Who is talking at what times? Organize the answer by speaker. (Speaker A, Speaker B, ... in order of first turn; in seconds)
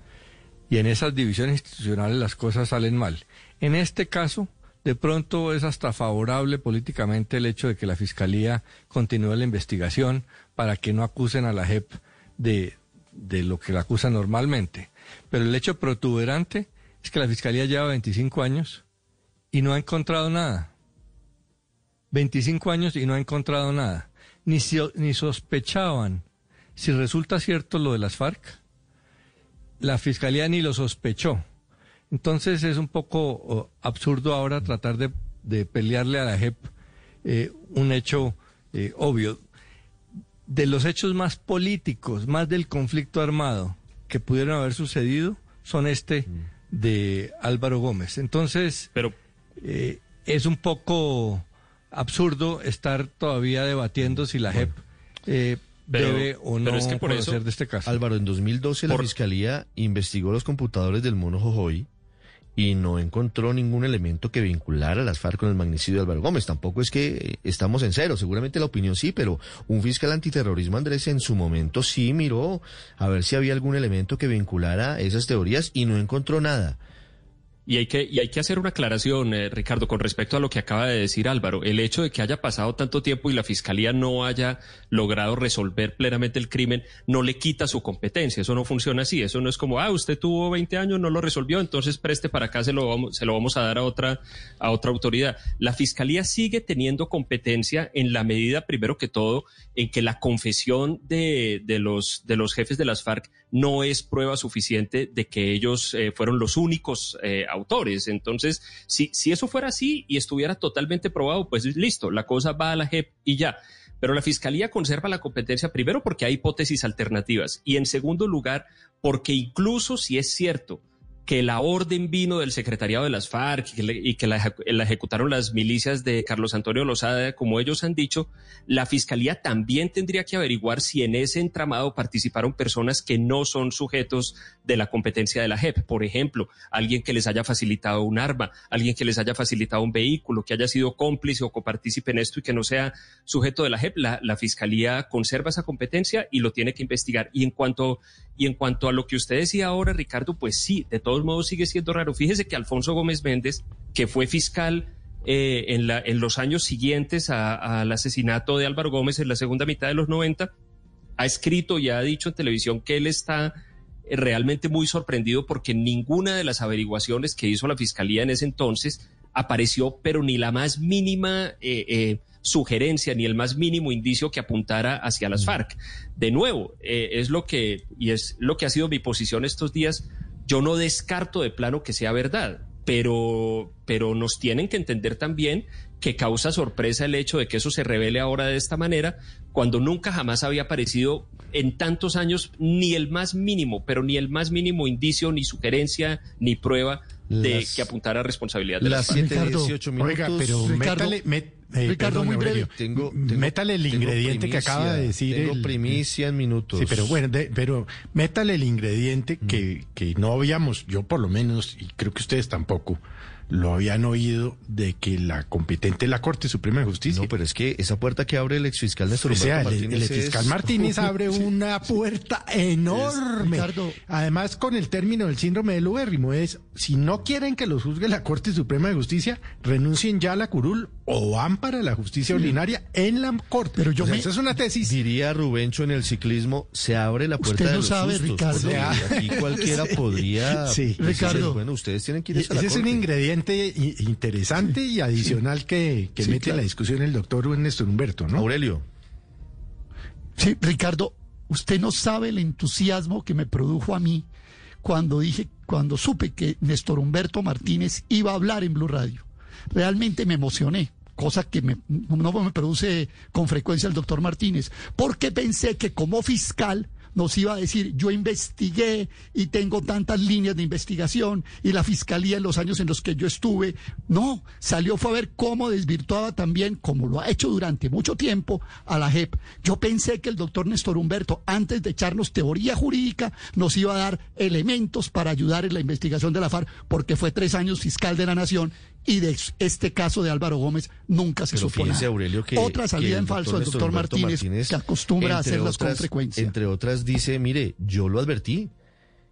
Speaker A: 0.7-18.8, 19.5-20.7, 22.1-26.2, 26.8-28.6, 29.8-31.4, 32.1-36.7, 37.2-39.4, 40.5-48.9, 49.6-58.0
Speaker B: 54.0-54.7, 57.9-61.9, 62.6-76.8, 197.3-197.9, 198.8-200.6, 202.7-207.2, 217.1-221.0, 234.0-234.2, 234.8-243.1, 248.3-248.8, 291.5-298.7
Speaker C: 55.9-57.4, 77.7-160.5, 161.2-163.5, 164.1-199.3
Speaker D: 199.1-199.9, 200.6-201.2, 201.8-202.7, 223.4-224.0, 233.8-234.3, 237.4-239.1, 241.0-241.6, 246.2-246.7, 250.4-254.3, 254.8-296.6
Speaker E: 200.0-206.0, 206.7-217.3, 219.1-235.0, 238.5-241.5, 242.3-248.5